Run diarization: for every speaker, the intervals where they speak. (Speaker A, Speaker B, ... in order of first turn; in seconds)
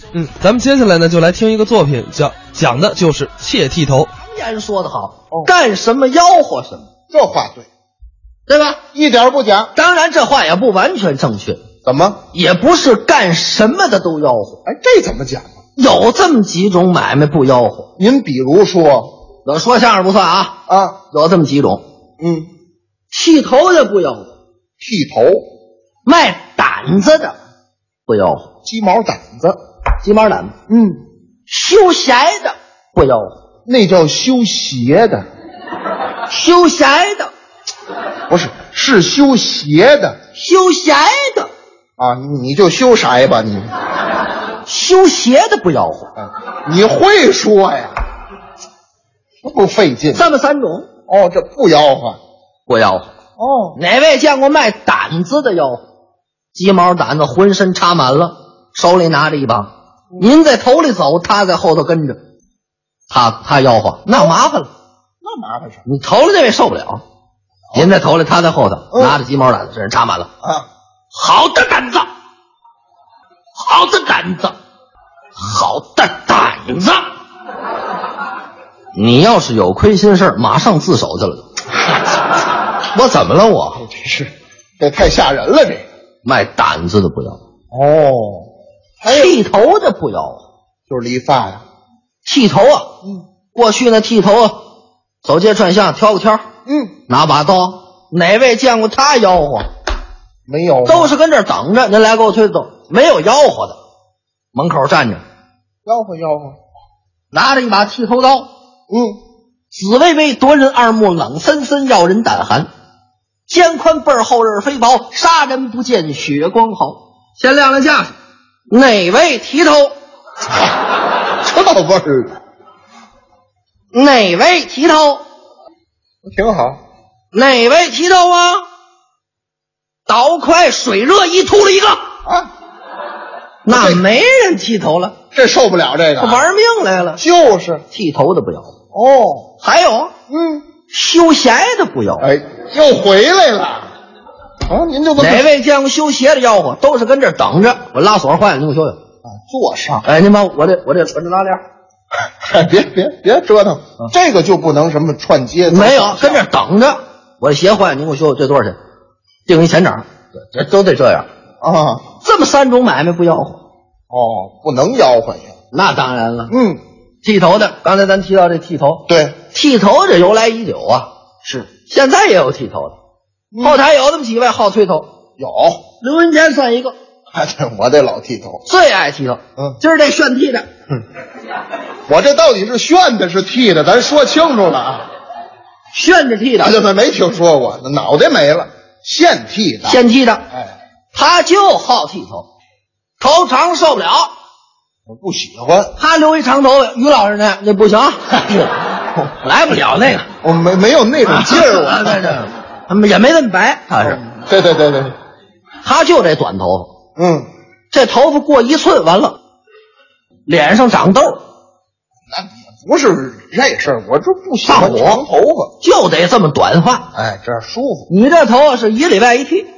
Speaker A: 0.1-4.1
Speaker B: 4.2-6.9, 8.5-8.8, 9.7-11.6, 12.3-14.6, 15.8-17.9, 19.4-21.8, 23.1-24.3, 26.0-27.3, 28.1-28.5, 30.0-30.5, 31.5-33.3, 36.3-37.3, 40.4-41.5, 44.6-46.1, 50.1-50.9, 52.7-53.1, 53.8-55.8, 56.5-62.2, 63.1-64.7, 65.8-67.0, 67.7-70.3, 71.1-72.1, 73.5-74.5, 75.4-77.0, 78.9-81.4, 82.9-83.8, 86.2-87.4, 89.0-90.4, 92.2-92.9, 93.5-94.6, 95.2-96.4, 97.1-99.7, 100.8-103.8, 104.5-105.2, 107.3-108.5, 109.7-112.7, 113.5-118.1, 118.7-119.9, 123.9-125.2, 127.3-128.6, 130.1-132.0, 133.6-135.2, 136.2-137.2, 137.9-138.7, 139.6-140.1, 140.9-142.3, 145.2-149.0, 150.0-151.6, 155.7-158.8, 159.5-161.3, 162.2-163.6, 165.7-166.5, 167.2-172.9, 173.6-175.1, 176.0-176.9, 178.7-180.7, 185.9-186.8, 189.8-190.4, 191.1-192.5, 193.2-194.3, 196.0-198.4, 199.3-200.3, 201.3-204.2, 205.8-206.9, 207.9-209.4, 210.5-211.4, 214.6-215.2, 215.8-217.1, 218.1-219.7
Speaker C: 7.1-7.7, 8.9-9.7, 11.8-12.2, 14.7-15.5, 18.0-19.1, 20.7-21.0, 22.2-22.5, 24.8-25.4, 28.6-29.6, 30.7-31.0, 33.6-35.2, 38.3-40.3, 42.0-43.7, 46.2-48.0, 49.4-50.2, 51.1-52.2, 53.4-53.8, 65.2-65.8, 68.9-69.2, 83.8-85.8, 87.7-88.5, 89.0-89.3, 90.9-91.6, 96.7-96.9, 100.5-101.1, 105.8-106.6, 108.9-109.2, 121.4-122.4, 126.2-126.8, 133.7-134.0, 135.3-136.4, 137.2-137.8, 138.9-139.5, 140.3-140.7, 142.2-143.9, 144.7-145.5, 149.2-150.1, 152.4-156.4, 161.6-162.1, 164.1-165.5, 166.5-166.8, 169.1-169.4, 173.5-173.8, 175.4-175.8, 177.3-178.6, 182.1-185.1, 186.6-190.0, 195.1-195.9, 200.4-202.4, 204.1-205.1, 207.2-207.5, 212.3-215.7, 217.1-218.1